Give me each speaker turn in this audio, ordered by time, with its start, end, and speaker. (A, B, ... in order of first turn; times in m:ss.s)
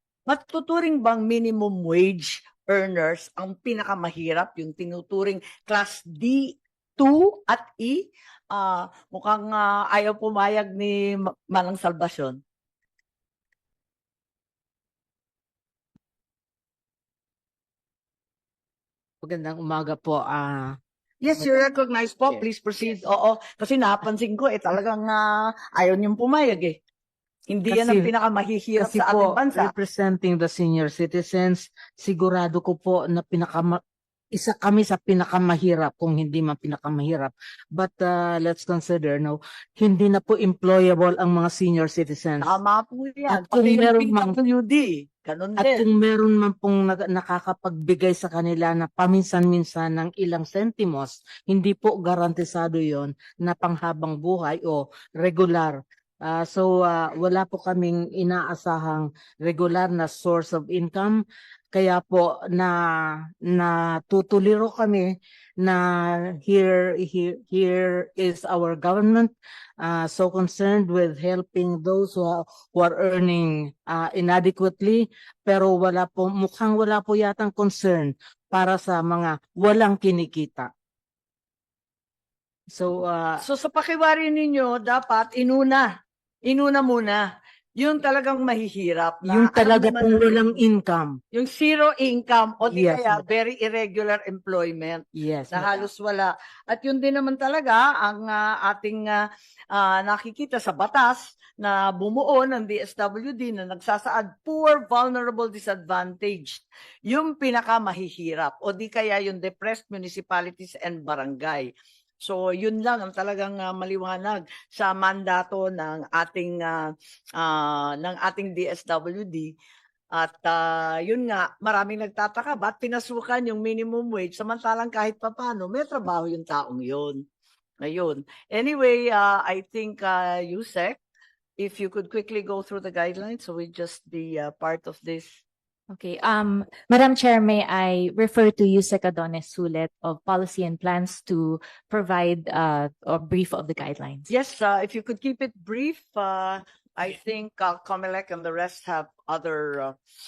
0:00.3-0:12.4 A
0:19.2-0:20.8 B
0:21.2-0:26.8 A
0:27.5-0:29.7 A
0:27.7-0:28.1 B
0:28.8-0:33.8 B
0:34.3-0:42.6 B
0:42.4-0:45.8 A
0:43.3-0:44.4 B
0:45.6-1:20.7 B
1:22.7-1:23.4 B
1:23.4-1:25.9 A
1:26.5-1:27.2 A
1:27.8-1:30.4 A
1:29.2-1:31.2 B
1:31.3-1:51.7 A
1:32.7-1:33.2 B
1:35.2-1:35.9 B
1:52.2-1:59.6 A
2:00.1-2:07.2 A
2:07.8-2:11.0 A
2:11.6-2:15.4 A
2:15.9-2:24.3 C
2:24.3-2:30.0 A